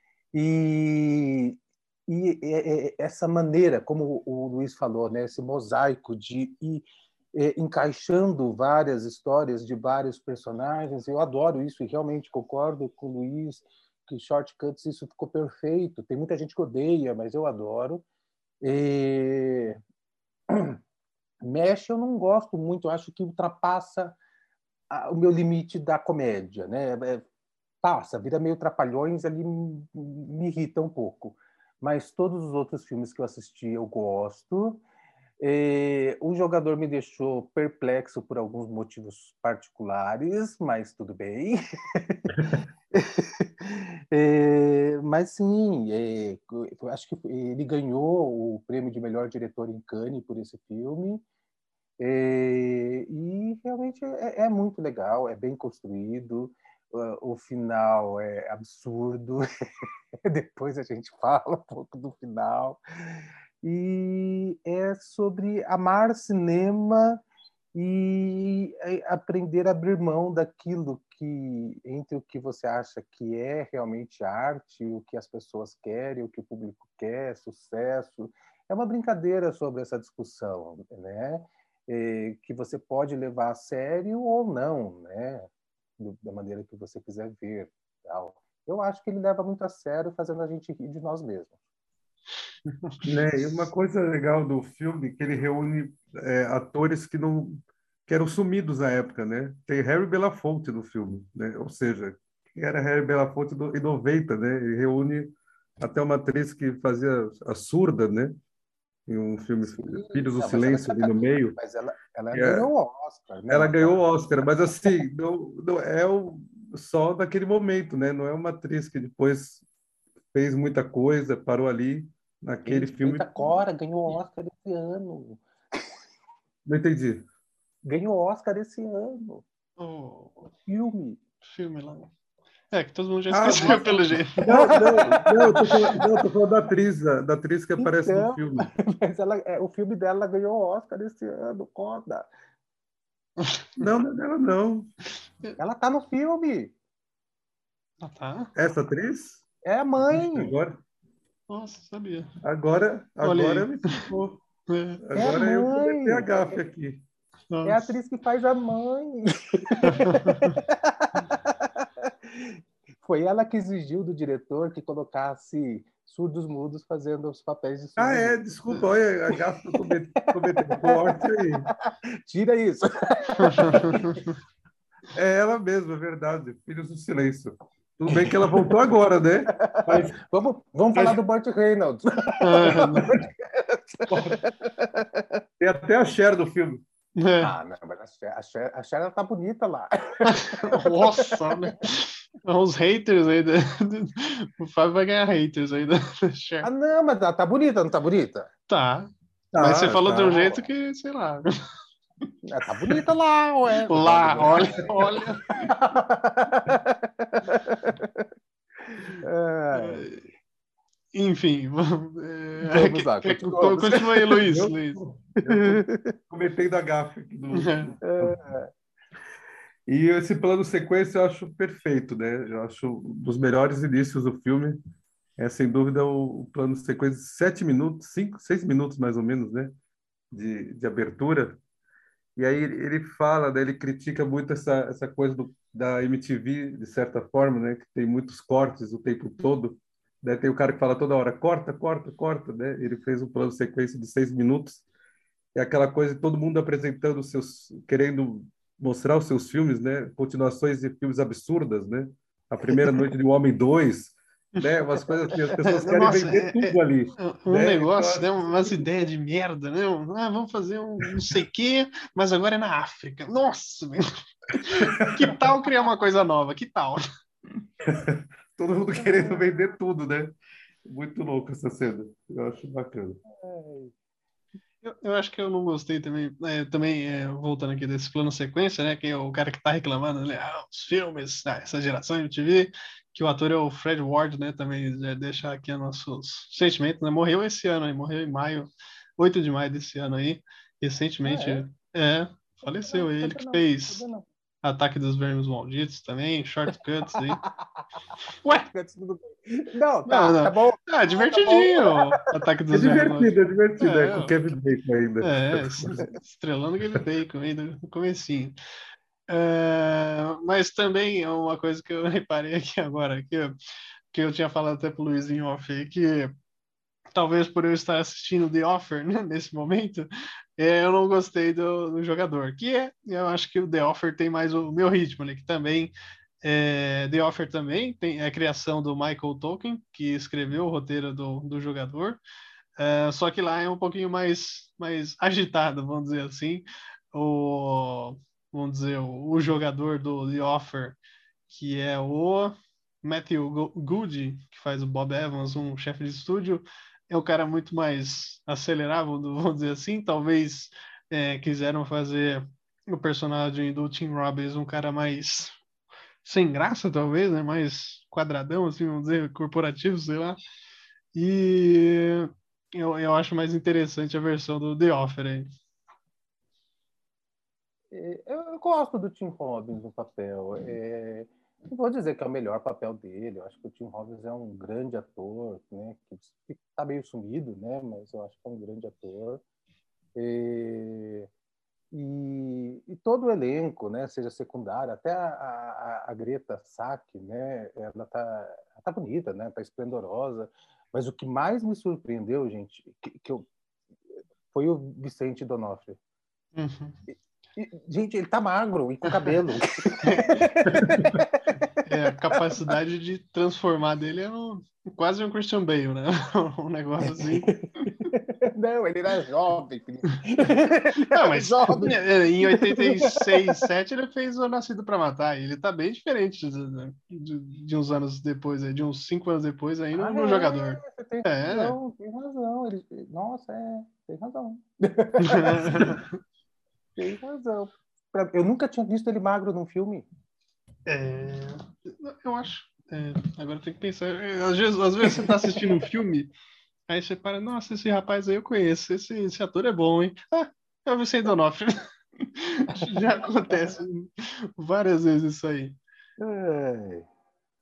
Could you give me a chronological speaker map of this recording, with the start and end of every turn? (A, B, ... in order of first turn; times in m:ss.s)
0:00.3-0:18.0 A
0:18.6-0:19.8 A
0:20.5-0:20.8 A
0:21.4-0:24.2 A
0:24.9-0:27.3 A
0:27.8-0:34.8 A
0:35.4-0:42.4 A
0:42.4-0:42.6 B
0:42.9-0:51.2 A
0:52.0-0:59.4 A
1:00.2-1:07.2 A
1:07.8-1:31.6 A
1:32.7-1:33.2 C
1:33.0-1:48.4 B
1:49.1-1:51.6 B
1:49.6-1:55.0 A
1:52.3-1:52.7 B
1:53.5-1:59.6 B
2:00.3-2:03.5 B
2:02.6-2:05.8 A
2:06.7-2:07.2 B
2:07.8-2:09.4 A
2:09.8-2:10.5 C
2:10.7-2:11.2 A
2:11.4-2:12.1 C
2:12.7-2:15.8 C
2:13.3-2:18.7 B
2:13.5-2:13.8 A
2:14.4-2:16.2 A
2:17.8-2:22.3 A
2:23.4-2:23.8 C
2:23.8-2:24.9 B
2:25.6-2:26.7 A
2:28.0-2:28.5 C
2:28.6-2:29.4 B
2:29.6-2:30.6 A
2:30.0-2:30.8 B
2:31.5-2:32.3 C
2:32.4-2:34.4 B
2:33.2-2:34.1 C
2:34.7-2:35.0 C
2:35.0-2:37.0 B
2:35.2-2:36.6 A
2:37.5-2:37.8 C
2:37.6-2:54.2 A
2:39.8-2:40.6 C
2:48.0-2:51.7 B
2:53.4-2:54.4 C
2:55.1-3:00.2 B
2:58.1-2:58.8 A
2:59.5-3:05.4 A
3:00.9-3:01.2 B
3:02.4-3:03.1 C
3:02.7-3:03.2 B
3:04.1-3:04.4 B
3:05.6-3:06.8 B
3:07.2-3:07.5 C
3:07.4-3:11.6 A
3:10.3-3:16.7 C
3:16.6-3:18.5 A
3:18.7-3:21.5 C
3:19.5-3:20.3 B
3:20.1-3:20.7 A
3:22.4-3:28.3 A
3:23.9-3:25.5 C
3:24.4-3:24.8 B
3:29.2-3:30.1 A
3:29.7-3:30.3 C
3:31.1-3:35.0 C
3:32.6-3:34.4 A
3:34.4-3:38.4 B
3:35.4-3:36.2 A
3:37.5-3:37.9 C
3:38.0-3:38.7 A
3:39.9-3:44.8 B
3:45.4-3:49.8 B
3:50.3-3:51.6 B
3:52.4-4:04.8 B
4:05.5-4:18.8 B
4:12.7-4:13.0 A
4:15.6-4:27.0 C
4:24.8-4:25.4 B
4:27.8-4:33.2 B
4:28.9-4:29.7 A
4:33.3-4:33.9 A
4:34.8-4:54.0 C
4:51.2-4:51.6 A
4:52.6-4:54.3 A
4:54.6-4:57.4 C
4:57.5-5:02.0 A
5:00.1-5:04.5 C
5:02.7-5:06.1 B
5:05.2-5:08.6 C
5:09.3-5:13.5 C
5:14.1-5:16.3 C
5:17.1-5:32.2 C
5:32.8-5:55.6 C
5:56.2-6:00.4 C
6:01.1-6:05.5 C
6:07.9-6:19.4 A
6:20.2-6:21.3 A
6:21.9-6:33.5 A
6:34.5-6:36.0 A
6:36.6-6:37.0 C
6:37.6-6:41.4 A
6:40.0-6:40.8 C
6:40.7-6:41.1 B
6:41.8-6:47.5 C
6:47.0-6:53.7 A
6:51.1-7:01.8 C
7:00.0-7:06.0 A
7:05.2-7:06.1 C
7:07.0-7:10.1 A
7:10.9-7:16.3 C
7:15.0-7:15.7 A
7:16.9-7:25.8 C
7:26.2-7:27.1 A